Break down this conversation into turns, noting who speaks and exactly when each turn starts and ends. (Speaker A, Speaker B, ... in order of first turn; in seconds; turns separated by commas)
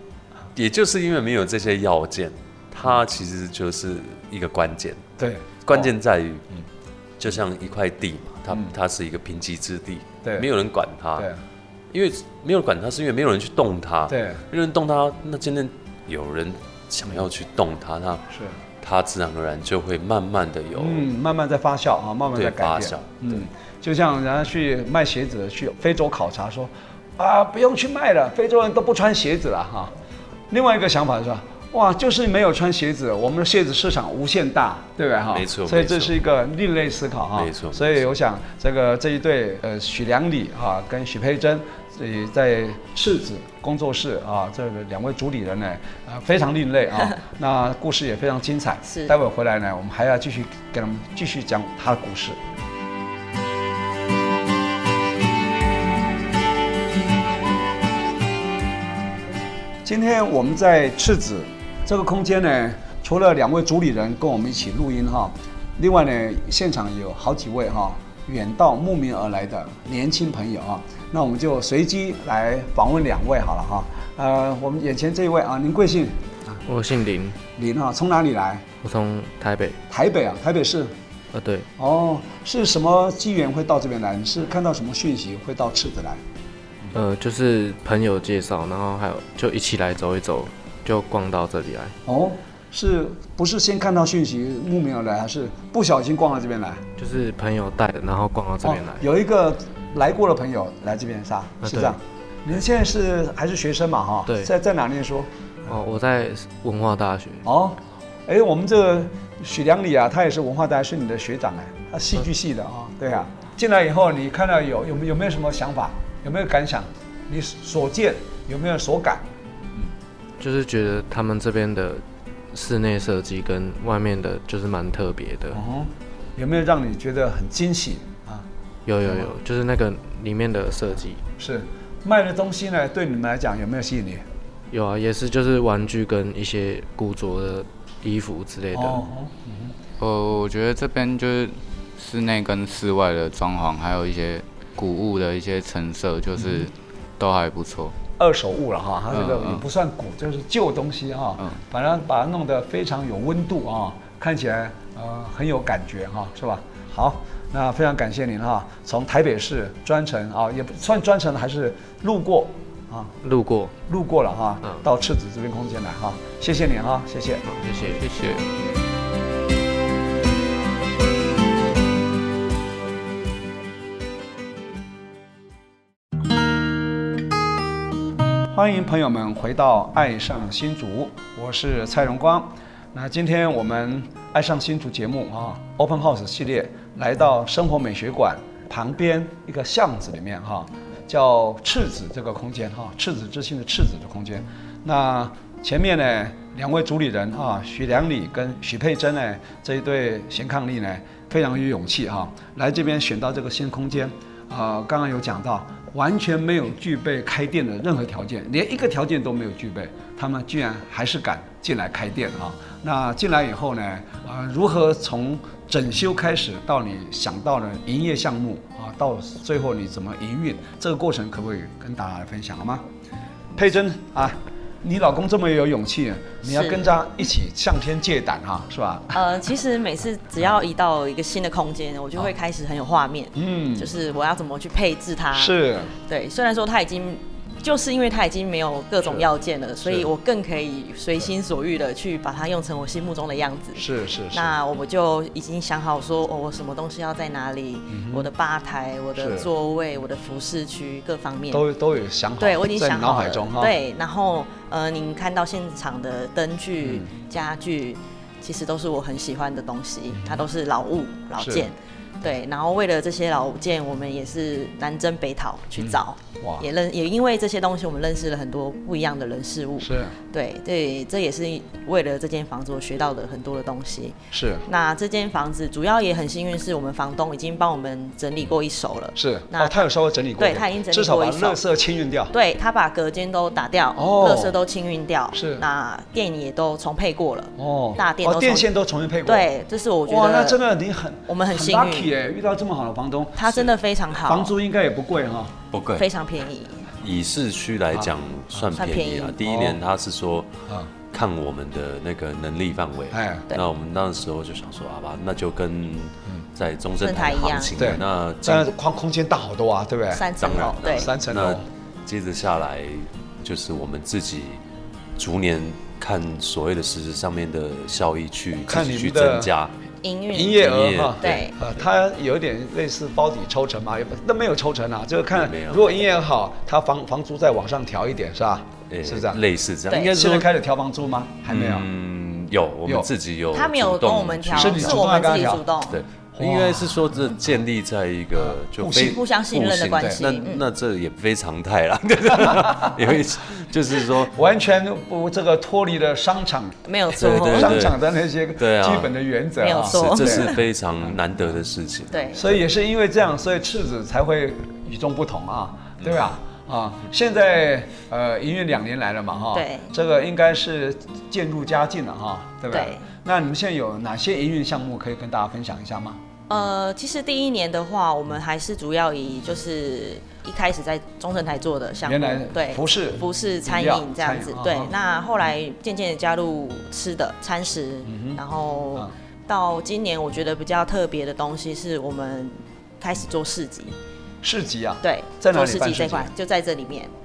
Speaker A: 0.6-5.0, Speaker B: 5.2-5.9, Speaker A: 5.6-6.5, Speaker A: 7.2-11.3, Speaker B: 10.2-10.5, Speaker A: 11.9-18.2, Speaker B: 14.1-14.4, Speaker B: 18.3-18.6, Speaker A: 18.8-21.1, Speaker B: 20.8-29.9, Speaker A: 22.4-23.4, Speaker B: 30.5-52.4, Speaker A: 35.3-36.1, Speaker A: 37.4-38.0, Speaker C: 48.9-49.1, Speaker B: 59.8-76.6, Speaker D: 76.7-77.4, Speaker B: 77.6-78.7, Speaker D: 78.8-79.8, Speaker B: 79.9-81.0, Speaker D: 81.3-81.7, Speaker B: 81.8-86.2, Speaker D: 86.9-92.0, Speaker B: 92.1-96.9, Speaker D: 97.0-99.0, Speaker B: 98.6-105.7, Speaker D: 101.6-102.0, Speaker D: 104.3-104.5, Speaker D: 105.7-107.5, Speaker B: 107.5-119.3, Speaker D: 120.4-125.6, Speaker B: 125.5-128.5, Speaker D: 128.9-131.2, Speaker B: 129.0-129.3, Speaker B: 131.4-134.3, Speaker D: 134.7-139.0, Speaker B: 138.7-139.7, Speaker E: 140.0-141.5, Speaker E: 142.0-146.6, Speaker E: 147.2-147.9, Speaker B: 148.2-163.1, Speaker D: 163.2-163.7, Speaker B: 163.9-167.5, Speaker D: 167.5-168.4, Speaker B: 178.5-222.8, Speaker B: 223.6-229.2, Speaker C: 226.4-226.9, Speaker C: 229.1-251.7, Speaker B: 233.3-233.9, Speaker B: 235.3-235.9, Speaker B: 243.8-244.6, Speaker B: 247.9-248.3, Speaker B: 249.2-249.5, Speaker B: 251.5-253.8, Speaker C: 252.4-279.8, Speaker B: 256.8-257.1, Speaker B: 261.4-261.7, Speaker B: 265.8-266.7, Speaker B: 269.8-270.1, Speaker B: 274.3-274.6, Speaker B: 279.2-282.3, Speaker C: 280.4-281.6, Speaker C: 282.3-288.7, Speaker B: 284.0-284.6, Speaker B: 285.3-285.6, Speaker B: 287.6-289.5, Speaker C: 289.2-290.6, Speaker B: 290.1-295.6, Speaker C: 291.3-292.1, Speaker C: 293.4-294.5, Speaker A: 295.7-296.1, Speaker C: 296.0-296.9, Speaker A: 297.0-300.5, Speaker C: 298.8-299.4, Speaker B: 299.4-299.8, Speaker A: 301.1-308.7, Speaker B: 303.1-303.5, Speaker C: 307.0-307.8, Speaker B: 307.8-310.3, Speaker C: 310.1-311.1, Speaker A: 310.4-314.6, Speaker B: 310.9-311.6, Speaker A: 315.2-319.7, Speaker B: 318.7-319.5, Speaker C: 320.0-321.5, Speaker B: 320.3-329.4, Speaker A: 320.6-321.8, Speaker A: 325.3-326.1, Speaker A: 328.9-330.5, Speaker B: 330.1-331.9, Speaker A: 331.5-335.0, Speaker C: 333.5-336.0, Speaker B: 334.5-335.6, Speaker A: 335.9-344.3, Speaker B: 336.4-337.2, Speaker B: 338.4-339.2, Speaker C: 338.9-340.6, Speaker B: 342.4-342.9, Speaker B: 344.3-350.5, Speaker C: 346.9-347.8, Speaker A: 347.2-348.0, Speaker A: 348.6-349.1, Speaker C: 349.6-350.6, Speaker A: 349.8-352.1, Speaker C: 352.1-352.5, Speaker B: 352.3-366.2, Speaker A: 356.0-356.3, Speaker C: 359.5-359.9, Speaker C: 362.7-363.1, Speaker C: 366.5-383.9, Speaker B: 372.0-374.9, Speaker B: 378.1-378.4, Speaker B: 384.4-386.3, Speaker C: 385.0-387.1